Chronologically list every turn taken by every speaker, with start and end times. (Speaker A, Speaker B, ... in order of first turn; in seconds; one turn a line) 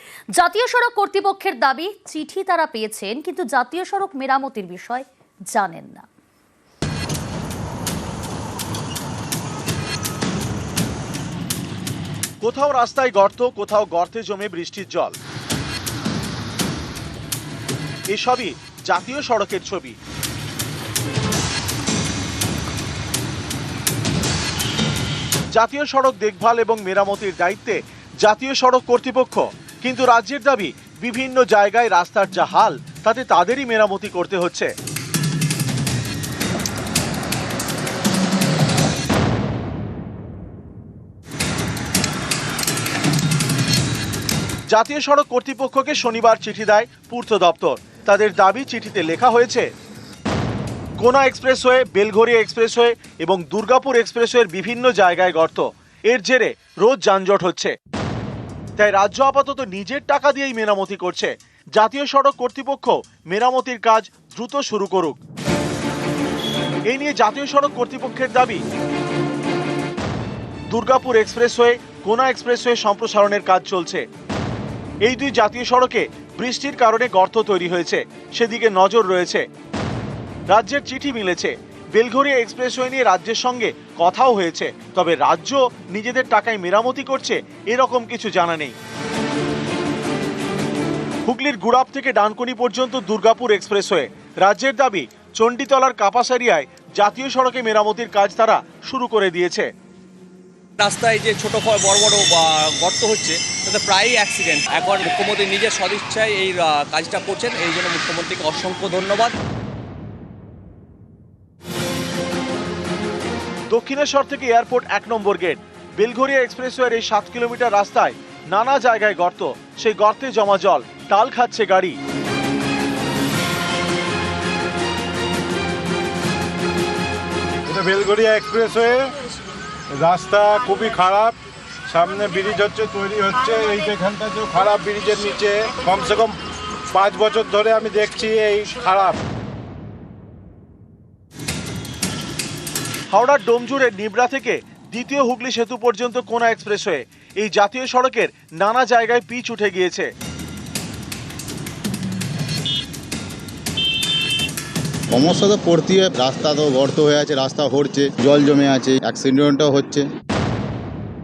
Speaker A: 0.4-6.1
Speaker B: 12.4-15.1
Speaker B: 18.1-20.0
Speaker B: 25.5-34.7
Speaker B: 44.7-49.7
Speaker B: 51.0-57.7
Speaker B: 58.8-65.2
Speaker B: 66.9-68.6
Speaker B: 70.7-74.0
Speaker B: 75.0-79.4
Speaker B: 80.5-88.7
Speaker B: 91.2-99.7
Speaker C: 100.8-109.3
Speaker B: 113.7-122.0
Speaker D: 127.7-129.0
Speaker D: 130.0-131.3
Speaker D: 131.9-136.3
Speaker D: 136.9-139.1
Speaker B: 143.1-150.1
Speaker E: 155.1-160.1